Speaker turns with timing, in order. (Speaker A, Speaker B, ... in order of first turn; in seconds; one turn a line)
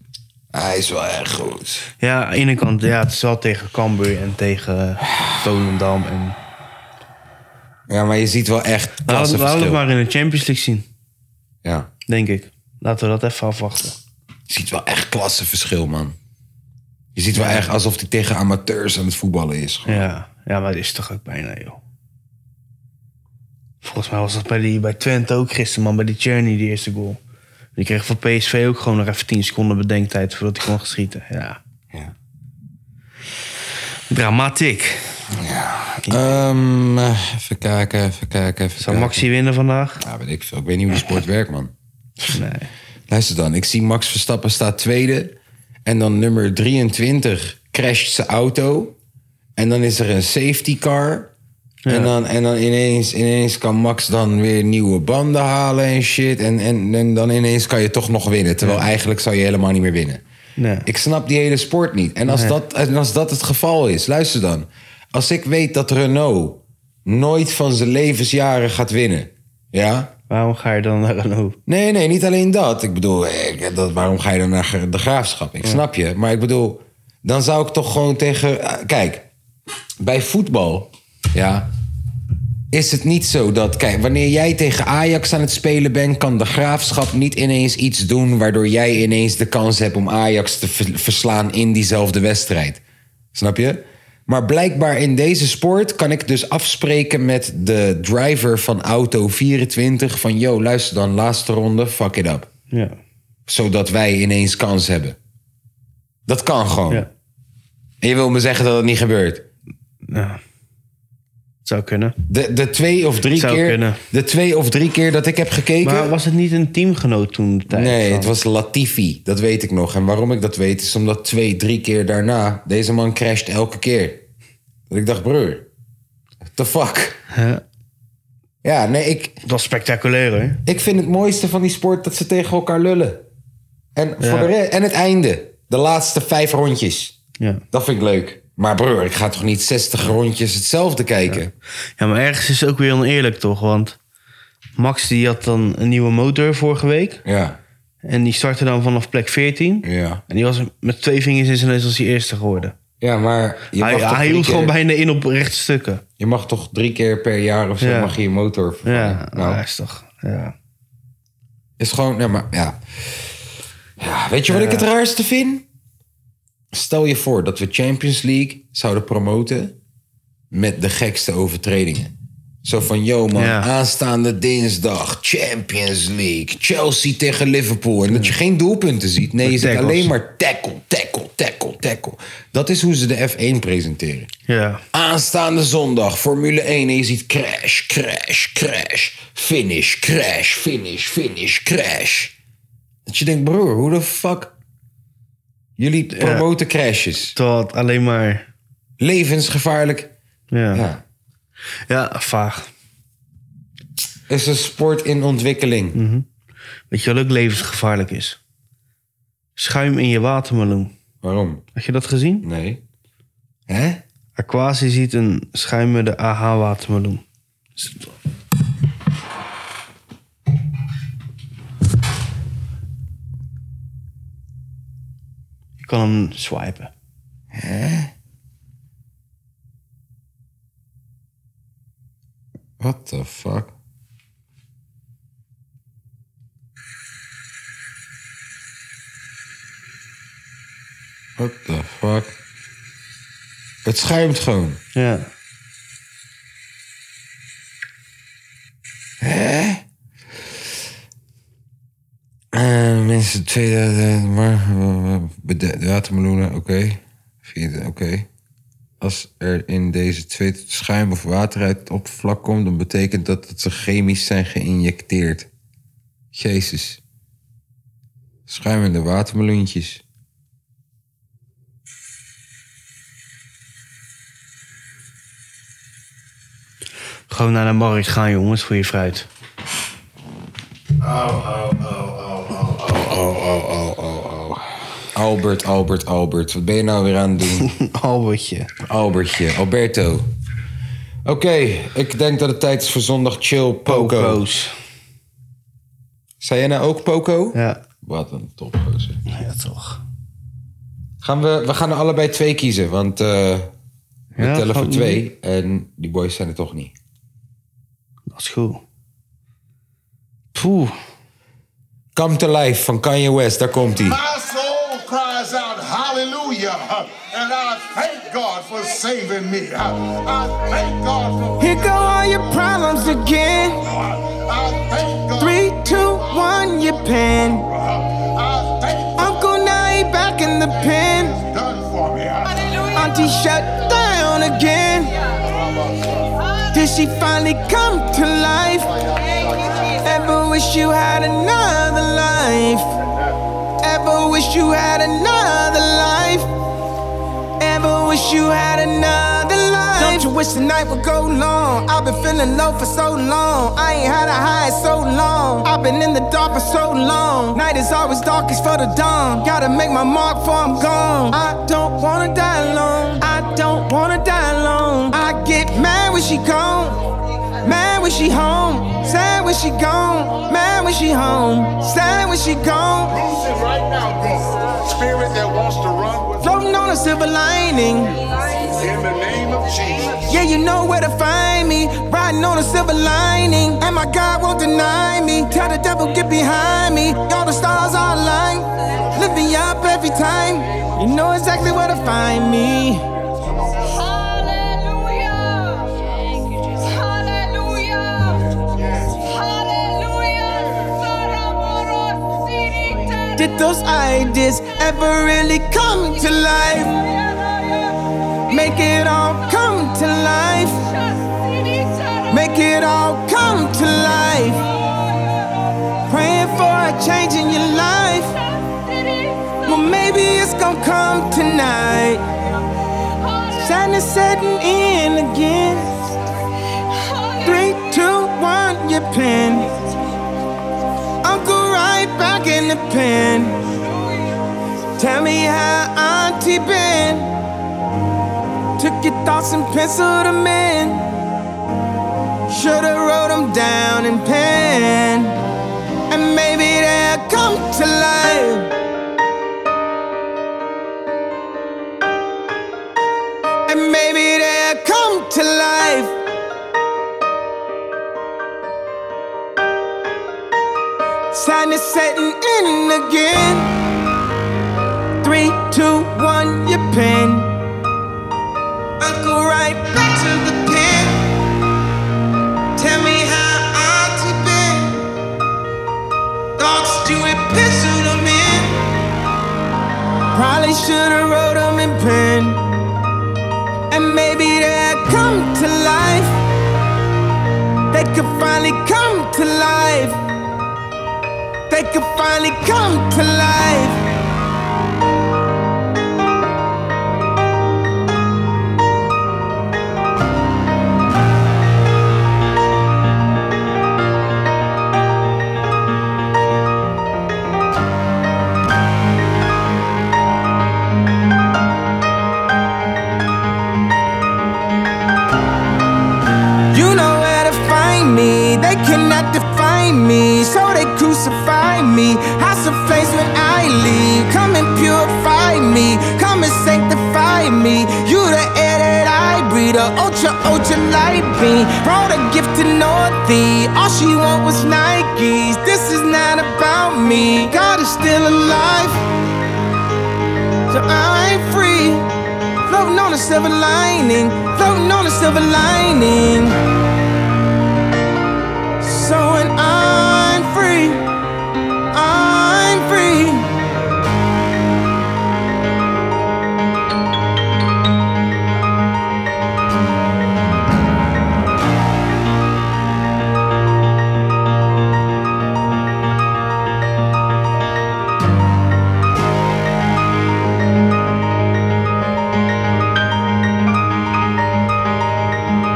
Speaker A: 0.5-1.9
Speaker B: 2.0-6.4
Speaker A: 7.9-9.8
Speaker B: 9.1-10.8
Speaker A: 11.6-11.9
Speaker B: 12.1-13.9
Speaker A: 14.5-16.2
Speaker A: 17.1-20.1
Speaker B: 17.3-17.7
Speaker B: 19.9-21.8
Speaker B: 23.8-27.2
Speaker B: 27.8-31.6
Speaker B: 34.1-35.3
Speaker A: 35.3-39.3
Speaker B: 36.0-36.3
Speaker B: 38.8-40.0
Speaker A: 40.0-41.7
Speaker B: 42.3-42.7
Speaker A: 43.1-49.0
Speaker A: 49.6-51.3
Speaker B: 51.9-52.1
Speaker A: 51.9-60.2
Speaker B: 60.6-60.9
Speaker A: 60.9-70.1
Speaker B: 62.3-62.6
Speaker B: 70.3-71.6
Speaker A: 71.7-79.3
Speaker A: 80.0-81.7
Speaker A: 82.7-92.8
Speaker A: 93.3-102.5
Speaker B: 102.7-103.0
Speaker A: 103.5-105.2
Speaker A: 106.3-107.1
Speaker A: 108.0-109.5
Speaker B: 110.1-110.4
Speaker B: 111.7-112.2
Speaker A: 112.3-116.2
Speaker B: 113.4-114.0
Speaker B: 115.8-118.3
Speaker A: 117.7-124.2
Speaker A: 124.9-125.7
Speaker A: 126.5-127.2
Speaker B: 127.3-127.6
Speaker A: 128.6-129.4
Speaker B: 129.4-130.6
Speaker A: 130.7-133.2
Speaker A: 133.9-137.2
Speaker B: 134.2-134.5
Speaker A: 137.7-141.5
Speaker B: 142.0-144.0
Speaker B: 144.8-147.2
Speaker A: 147.2-147.6
Speaker B: 148.1-152.8
Speaker A: 149.8-150.2
Speaker A: 153.0-154.7
Speaker B: 153.8-156.0
Speaker A: 156.2-159.6
Speaker B: 157.8-158.2
Speaker B: 158.8-160.5
Speaker A: 161.8-163.3
Speaker A: 164.0-165.7
Speaker B: 164.5-164.9
Speaker A: 166.7-169.8
Speaker A: 170.5-184.3
Speaker B: 173.4-173.7
Speaker B: 179.4-180.1
Speaker B: 184.5-184.8
Speaker A: 184.9-192.3
Speaker A: 193.1-194.5
Speaker A: 195.8-197.3
Speaker B: 196.1-196.5
Speaker B: 197.3-198.5
Speaker A: 199.0-200.1
Speaker B: 200.5-200.8
Speaker A: 200.7-201.0
Speaker B: 201.9-202.7
Speaker A: 204.3-206.0
Speaker B: 205.9-206.2
Speaker B: 206.9-208.4
Speaker B: 209.6-210.9
Speaker A: 211.2-211.6
Speaker B: 211.8-212.5
Speaker A: 212.4-212.8
Speaker A: 213.7-214.0
Speaker B: 214.4-217.2
Speaker B: 217.8-218.1
Speaker B: 225.8-226.9
Speaker A: 227.5-228.1
Speaker A: 232.8-233.7
Speaker A: 241.4-242.3
Speaker A: 243.8-244.8
Speaker B: 244.9-245.3
Speaker A: 249.2-249.8
Speaker A: 252.5-258.3
Speaker A: 259.0-265.5
Speaker A: 266.3-267.0
Speaker A: 268.5-270.0
Speaker B: 277.3-279.3
Speaker A: 281.0-284.6
Speaker A: 285.1-287.7
Speaker B: 287.6-288.7
Speaker A: 288.8-290.3
Speaker A: 291.2-294.4
Speaker B: 293.9-294.7
Speaker A: 296.4-299.2
Speaker B: 297.5-297.8
Speaker B: 299.3-300.0
Speaker A: 301.2-303.7
Speaker A: 304.4-306.9
Speaker B: 304.4-305.2
Speaker B: 308.3-308.8
Speaker B: 310.5-310.9
Speaker A: 312.1-314.2
Speaker C: 314.0-322.2
Speaker D: 321.6-323.8
Speaker C: 323.8-326.6
Speaker D: 325.4-327.7
Speaker C: 327.7-329.5
Speaker D: 329.2-331.4
Speaker C: 330.9-332.8
Speaker D: 332.9-335.1
Speaker C: 335.4-336.5
Speaker D: 336.7-338.9
Speaker C: 338.9-339.9
Speaker D: 340.0-342.9
Speaker D: 343.8-346.5
Speaker D: 347.6-367.0
Speaker D: 367.6-373.2
Speaker C: 373.1-376.5
Speaker D: 376.4-378.2
Speaker C: 378.5-380.3
Speaker D: 380.3-393.1
Speaker D: 403.4-407.0
Speaker D: 408.5-410.8
Speaker D: 412.3-414.6
Speaker D: 416.1-418.4
Speaker D: 419.6-422.2
Speaker D: 423.5-425.9
Speaker D: 427.4-429.7
Speaker D: 431.2-433.6
Speaker D: 435.0-437.3
Speaker D: 438.8-441.1
Speaker D: 442.5-445.4
Speaker D: 446.1-448.7
Speaker D: 453.7-456.1
Speaker D: 461.3-463.7
Speaker D: 465.2-467.5
Speaker D: 469.0-471.3
Speaker D: 472.8-475.1
Speaker D: 476.6-478.9
Speaker D: 480.3-482.6
Speaker D: 483.9-486.4
Speaker D: 487.9-490.2
Speaker D: 491.7-494.0
Speaker D: 516.7-539.1
Speaker D: 540.7-542.1
Speaker D: 542.7-546.6
Speaker D: 548.8-551.0
Speaker D: 551.9-553.5